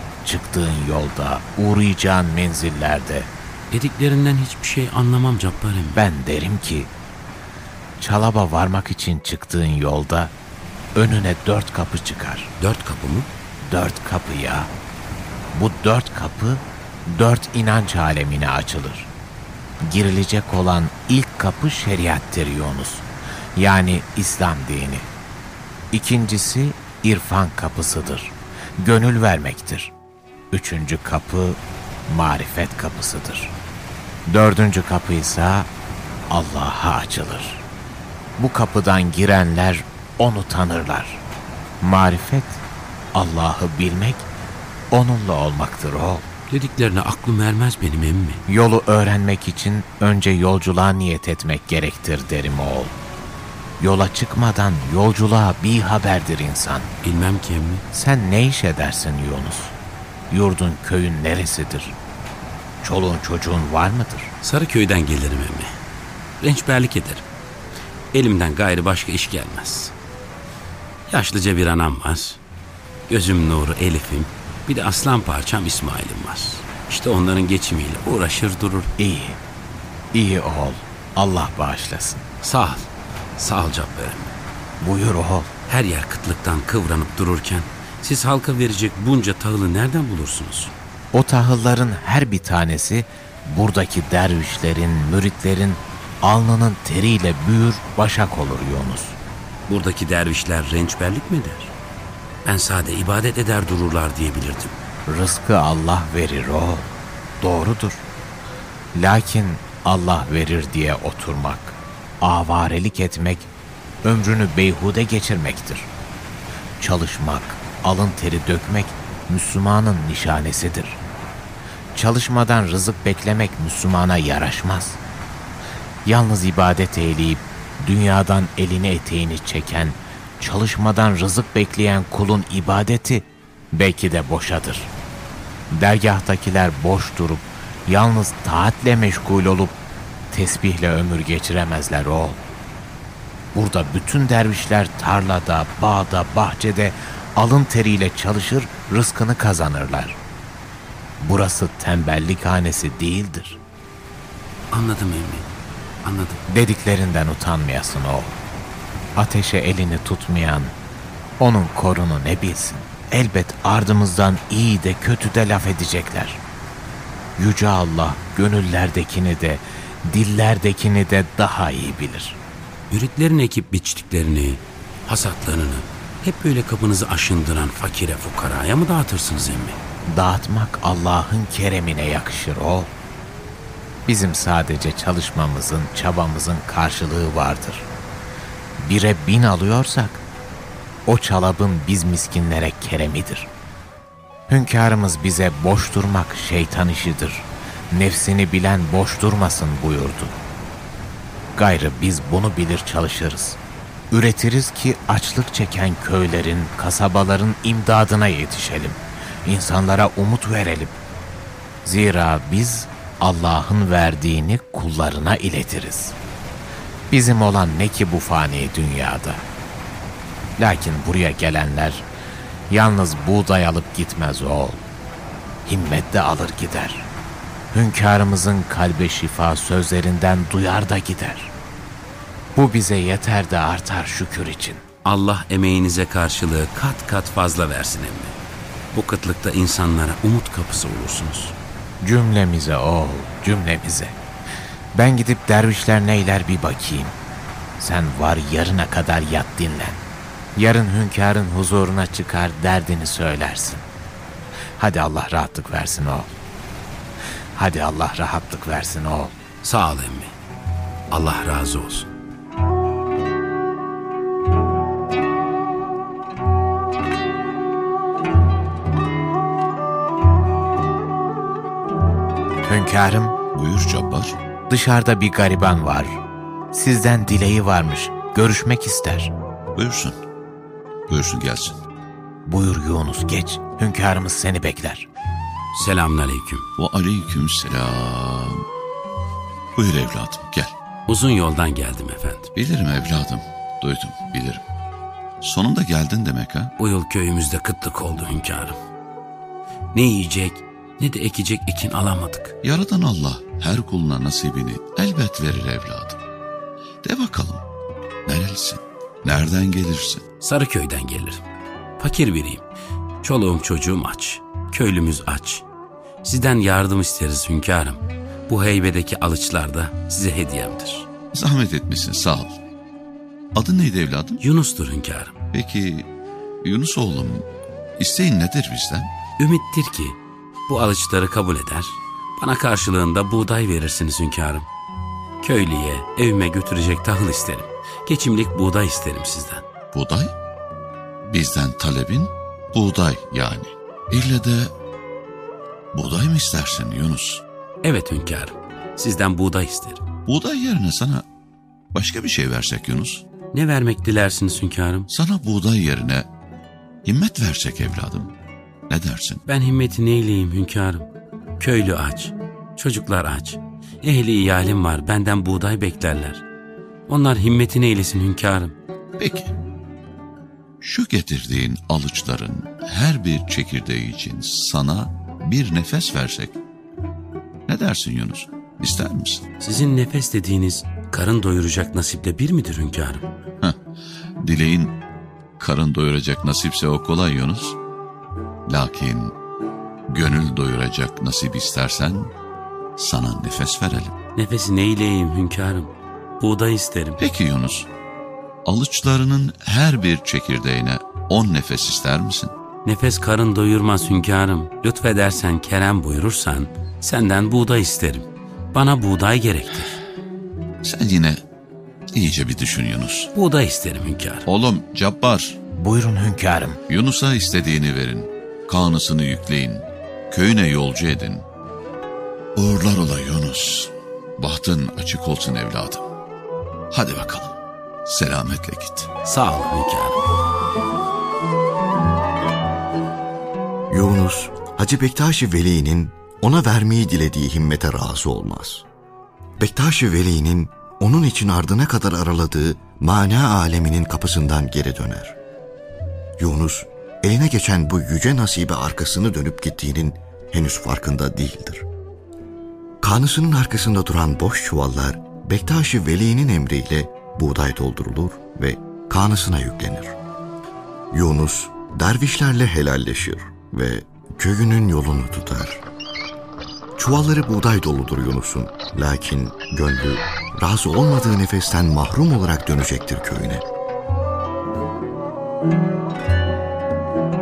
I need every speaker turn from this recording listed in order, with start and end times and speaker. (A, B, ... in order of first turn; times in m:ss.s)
0:00.2-0:03.3 A
0:03.7-0:06.0 B
0:06.0-0:06.9 A
0:08.0-0:10.3 A
0:11.0-0:12.5 A
0:12.6-0:13.3 B
0:13.6-0:14.7 A
0:15.5-0:19.1 A
0:19.8-0:25.1 A
0:25.9-0:29.9 A
0:30.5-0:33.6 A
0:34.3-0:35.7 A
0:36.3-0:37.6 A
0:38.4-0:41.2 A
0:41.8-0:42.6 A
0:43.1-0:44.3 A
0:44.9-0:46.3 A
0:46.5-0:48.4 B
0:48.5-0:53.0 A
0:53.8-0:56.9 A
0:57.0-0:57.8 B
0:57.9-0:59.8 A
1:00.3-1:02.0 A
1:02.8-1:04.3 A
1:04.4-1:05.7 B
1:06.4-1:07.2 B
1:08.1-1:09.9 B
1:11.1-1:12.4 B
1:13.1-1:18.9 B
1:19.0-1:19.4 A
1:20.1-1:22.2 A
1:22.4-1:24.4 B
1:24.8-1:25.5 A
1:25.7-1:30.7 B
1:31.1-1:39.2 A
1:39.7-1:41.7 B
1:42.4-1:44.8 B
1:45.1-1:48.1 A
1:49.0-1:53.5 A
1:54.0-1:55.9 A
1:56.8-2:01.0 A
2:02.0-2:05.0 A
2:06.0-2:14.9 A
2:15.7-2:19.8 A
2:20.3-2:22.4 A
2:23.5-2:30.2 A
2:31.2-2:33.6 A
2:34.7-2:35.5 B
2:36.0-2:36.4 B
2:36.5-2:38.4 A
2:39.2-2:40.8 A
2:41.4-2:46.4 A
2:47.4-2:52.4 A
2:52.9-2:59.8 B
3:00.1-3:02.9 A
3:04.1-3:07.9 A
3:08.8-3:10.2 A
3:11.1-3:13.5 A
3:14.5-3:20.4 A
3:21.6-3:23.6 A
3:24.1-3:31.0 A
3:31.8-3:36.2 A
3:37.1-3:39.4 A
3:40.6-3:42.1 A
3:42.7-3:44.9 A
3:45.7-3:47.1 A
3:47.7-3:51.5 A
3:52.6-3:54.8 A
3:55.0-3:58.4 B
3:58.9-4:01.6 B
4:02.0-4:04.2 A
4:05.0-4:07.2 A
4:07.8-4:10.0 A
4:10.6-4:13.9 A
4:14.8-4:16.3 A
4:17.6-4:19.4 A
4:19.6-4:20.3 B
4:21.1-4:22.1 B
4:32.7-4:33.4 A
4:33.5-4:34.4 C
4:34.7-4:39.3 A
4:39.7-4:40.2 C
4:41.1-4:41.8 C
4:42.5-4:45.1 A
4:45.7-4:46.7 B
4:46.8-4:48.6 C
4:49.8-4:50.7 C
4:51.1-4:52.5 B
4:52.6-4:54.6 C
4:55.4-4:56.7 C
4:56.8-4:58.8 B
4:59.9-5:02.6 B
5:02.6-5:06.2 C
5:07.0-5:07.6 C
5:08.3-5:10.2 C
5:10.4-5:11.4 B
5:12.0-5:12.6 B
5:13.2-5:15.7 B
5:16.2-5:21.1 B
5:21.3-5:22.6 C
5:23.5-5:24.4 C
5:24.4-5:25.4 B
5:25.5-5:26.1 C
5:26.6-5:27.5 C
5:28.0-5:29.1 C
5:29.4-5:34.7 B
5:35.4-5:39.6 B
5:39.9-5:40.3 C
5:41.2-5:44.7 C
5:45.9-5:47.4 C
5:47.8-5:50.0 B
5:50.2-5:51.2 C
5:51.9-5:53.2 C
5:53.5-5:55.1 B
5:55.1-5:56.3 C
5:57.0-5:58.3 C
5:58.9-5:59.4 C
5:59.5-6:06.4 B
6:07.1-6:08.8 B
6:09.2-6:09.5 C
6:10.8-6:16.6 C
6:17.7-6:19.5 C
6:19.6-6:23.3 B
6:24.4-6:25.0 C
6:25.6-6:27.8 C
6:28.7-6:29.4 C
6:30.1-6:32.3 C
6:33.0-6:34.2 C
6:34.4-6:37.2 B
6:37.2-6:37.9 C
6:38.6-6:42.5 C
6:42.8-6:50.0 B
6:50.8-6:51.4 C
6:52.1-6:53.3 C
6:53.3-6:54.5 B
6:54.5-6:55.6 C
6:55.8-6:56.8 A
6:56.9-7:01.4 C
7:02.6-7:06.0 C
7:06.9-7:09.1 C
7:09.2-7:10.2 B
7:13.9-7:18.8 D
7:19.6-7:25.4 D
7:26.4-7:31.9 D
7:33.0-7:40.2 D
7:41.1-7:45.8 D
7:47.0-7:53.6 D